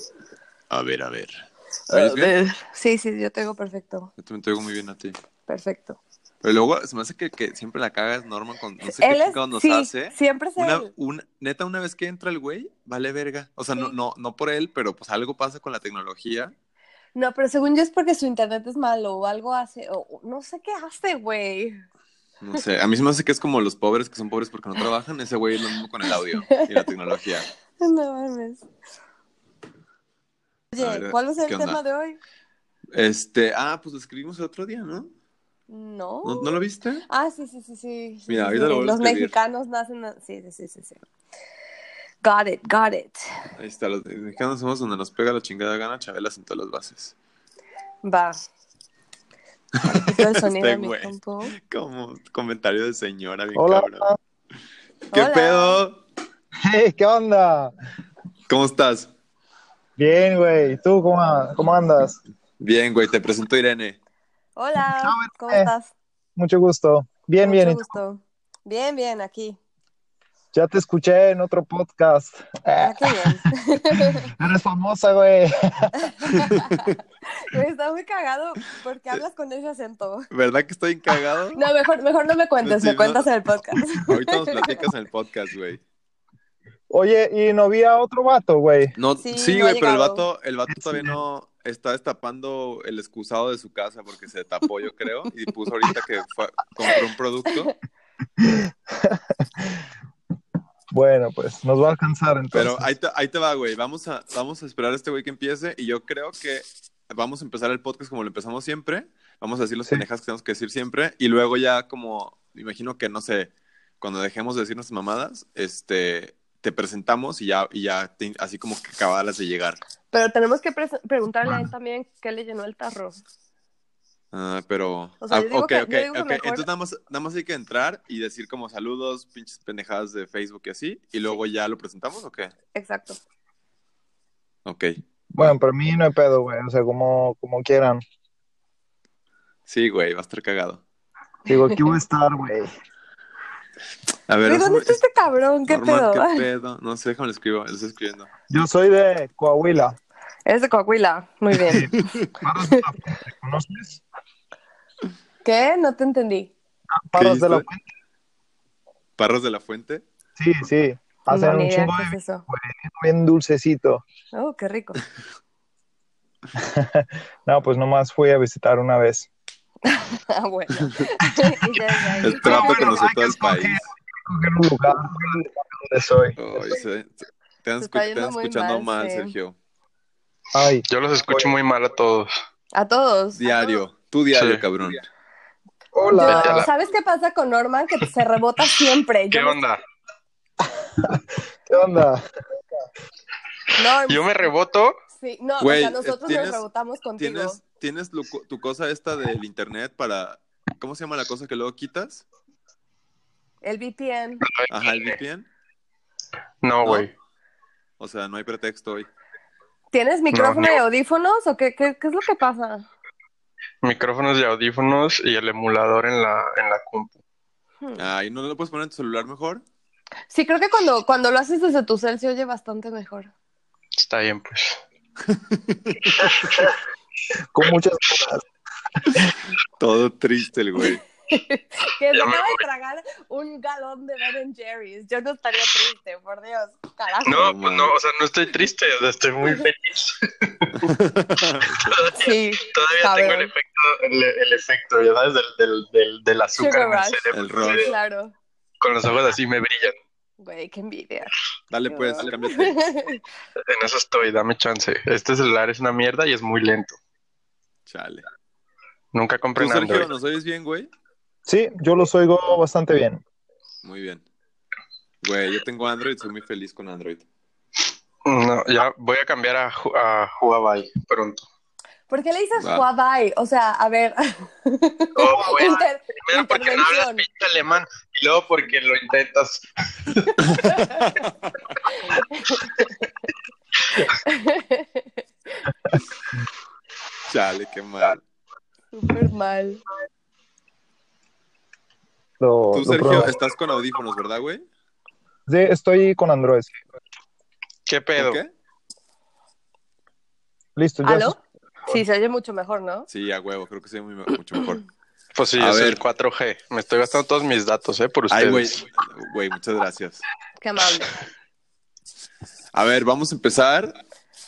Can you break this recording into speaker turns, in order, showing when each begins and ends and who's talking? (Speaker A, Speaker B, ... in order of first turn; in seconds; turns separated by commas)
Speaker A: 0.7-2.3, Speaker B: 1.9-4.1, Speaker A: 4.2-5.2, Speaker B: 5.5-6.0, Speaker A: 6.4-16.5, Speaker B: 9.0-10.9, Speaker B: 17.1-21.8, Speaker A: 22.4-27.4, Speaker B: 27.8-28.6, Speaker B: 30.7-32.2, Speaker A: 30.8-31.8, Speaker A: 32.9-35.1, Speaker B: 35.7-41.0, Speaker A: 36.2-37.0, Speaker A: 38.3-39.3, Speaker B: 42.2-43.2, Speaker A: 43.6-47.1, Speaker B: 48.0-48.4, Speaker A: 49.8-54.1, Speaker B: 49.9-51.5, Speaker C: 53.5-54.2, Speaker B: 55.1-55.8, Speaker A: 55.1-56.0, Speaker C: 56.6-57.7, Speaker A: 58.5-59.1, Speaker C: 60.0-62.2, Speaker A: 62.6-64.0, Speaker B: 64.5-65.9, Speaker C: 65.0-65.7, Speaker C: 66.4-67.9, Speaker B: 67.4-69.6, Speaker C: 70.5-73.4, Speaker B: 72.8-74.3, Speaker C: 74.1-76.6, Speaker B: 76.0-80.3, Speaker A: 80.3-81.6, Speaker B: 81.5-84.7, Speaker A: 82.6-83.3, Speaker A: 84.0-85.8, Speaker C: 86.9-89.0, Speaker A: 89.0-97.7, Speaker B: 89.2-90.2, Speaker C: 90.7-91.1, Speaker C: 98.4-99.8, Speaker C: 100.9-102.9, Speaker A: 102.5-119.8, Speaker B: 120.1-123.2, Speaker A: 124.3-132.5, Speaker B: 125.2-126.7, Speaker B: 132.7-133.2, Speaker A: 134.6-135.5, Speaker C: 135.3-138.0, Speaker A: 139.7-140.8, Speaker C: 141.5-142.7, Speaker A: 144.3-145.0, Speaker B: 144.4-146.4, Speaker A: 145.7-148.3, Speaker C: 148.5-150.0, Speaker B: 150.4-151.9, Speaker A: 151.7-152.3, Speaker C: 151.7-154.0, Speaker B: 155.4-156.5, Speaker C: 156.9-157.8, Speaker A: 157.2-157.7, Speaker A: 159.2-160.0, Speaker C: 160.4-164.0, Speaker B: 161.3-162.4, Speaker B: 164.3-165.0, Speaker C: 166.6-169.3, Speaker B: 169.9-173.0, Speaker A: 172.2-173.8, Speaker C: 172.3-176.4, Speaker A: 176.4-179.6, Speaker B: 177.8-179.3, Speaker C: 180.5-181.6, Speaker D: 180.9-182.3, Speaker B: 182.7-183.8, Speaker A: 183.4-185.1, Speaker D: 184.3-184.6, Speaker C: 185.9-186.7, Speaker D: 186.2-186.7, Speaker B: 186.2-189.6, Speaker D: 189.3-189.8, Speaker C: 191.0-192.2, Speaker B: 193.8-194.5, Speaker D: 194.1-194.9, Speaker B: 195.1-197.6, Speaker A: 195.6-196.6, Speaker A: 197.2-202.2, Speaker B: 203.6-204.4, Speaker D: 204.5-205.2, Speaker A: 204.7-205.5, Speaker D: 206.6-207.1, Speaker A: 208.0-209.1, Speaker B: 209.9-212.9, Speaker D: 210.3-210.8, Speaker D: 213.8-217.1, Speaker A: 217.9-219.6, Speaker B: 220.3-223.3, Speaker D: 224.0-224.8, Speaker A: 225.3-226.5, Speaker C: 226.4-226.7, Speaker C: 227.5-228.4, Speaker A: 229.8-231.0, Speaker B: 231.3-237.5, Speaker D: 232.1-232.6, Speaker D: 237.2-240.8, Speaker A: 237.3-237.9, Speaker A: 240.8-242.0, Speaker D: 241.9-247.9, Speaker B: 242.2-243.5, Speaker B: 246.6-248.3, Speaker A: 247.3-247.9, Speaker D: 248.8-249.9, Speaker B: 250.4-251.3, Speaker A: 251.7-252.9, Speaker B: 251.9-253.2, Speaker D: 253.7-256.9, Speaker A: 257.9-258.2, Speaker D: 259.1-260.1, Speaker A: 259.6-260.9, Speaker C: 261.4-263.2, Speaker A: 263.8-264.2, Speaker A: 265.2-267.2, Speaker D: 268.2-271.4, Speaker B: 272.1-277.2, Speaker A: 272.6-272.9, Speaker D: 275.1-280.4, Speaker A: 280.5-281.7, Speaker B: 280.6-280.9, Speaker B: 282.0-282.9, Speaker B: 284.2-285.2, Speaker A: 287.3-288.2, Speaker B: 288.9-289.8, Speaker C: 292.4-293.4, Speaker A: 292.7-294.6, Speaker C: 295.5-296.8, Speaker D: 297.9-298.4, Speaker A: 298.2-298.5, Speaker C: 300.8-301.4, Speaker B: 301.0-303.1, Speaker A: 303.1-304.8, Speaker D: 305.3-308.8, Speaker A: 305.6-306.0, Speaker A: 308.3-310.2, Speaker B: 310.6-311.1, Speaker A: 312.7-313.9